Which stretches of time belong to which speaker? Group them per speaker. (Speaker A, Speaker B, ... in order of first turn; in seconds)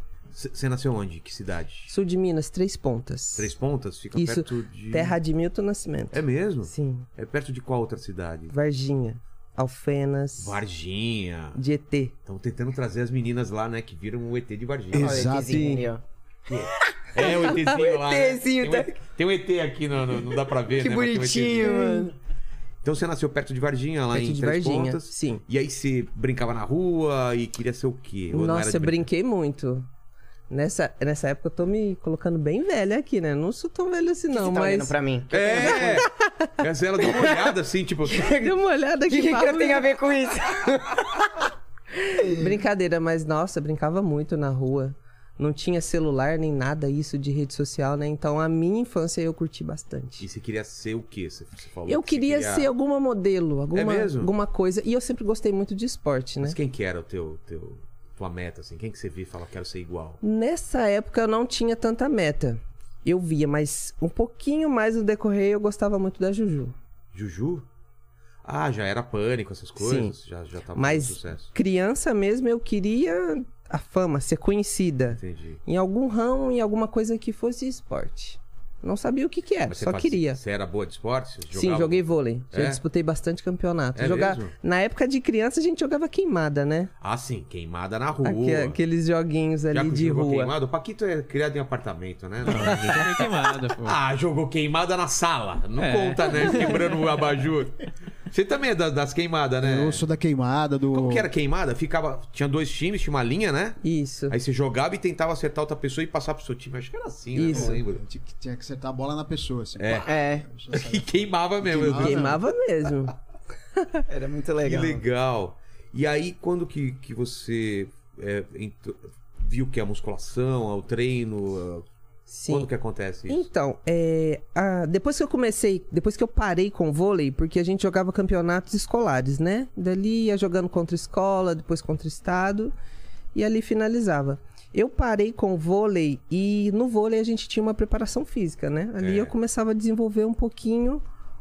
Speaker A: 0.3-1.9, 3.4-5.2, 6.1-8.5, 10.4-11.6, 12.3-15.3, 16.5-21.9, 22.8-29.0, 35.3-38.4, 50.2-52.7, 53.7-54.3, 56.4-60.2, 67.1-67.7, 68.5-71.5, 75.2-75.6, 79.7-82.8, 84.0-84.5, 87.0-88.8, 89.7-93.2, 93.8-100.0, 100.9-108.0, 109.8-110.1, 110.7-112.4, 114.6-121.8, 122.5-123.4, 139.0-139.3
Speaker B: 1.9-3.5, 4.2-7.1, 8.5-10.6, 11.6-12.1, 15.3-15.9, 21.6-22.1, 24.1-25.4, 28.3-29.9, 30.5-35.0, 35.7-36.5, 38.4-39.9, 42.0-50.2, 51.9-56.6, 60.2-66.8, 69.8-70.1, 70.8-80.4, 81.5-86.9, 88.2-90.5, 103.8-104.3, 107.3-107.8, 111.9-113.2, 122.3-122.7, 123.3-132.7, 133.3-141.0
Speaker C: 14.9-15.8, 99.6-101.3, 107.5-112.4
Speaker D: 14.9-18.9, 20.8-22.1, 34.3-36.1, 38.1-38.5, 39.1-41.5, 110.1-110.5, 114.1-115.0
Speaker E: 92.4-94.0, 95.8-96.8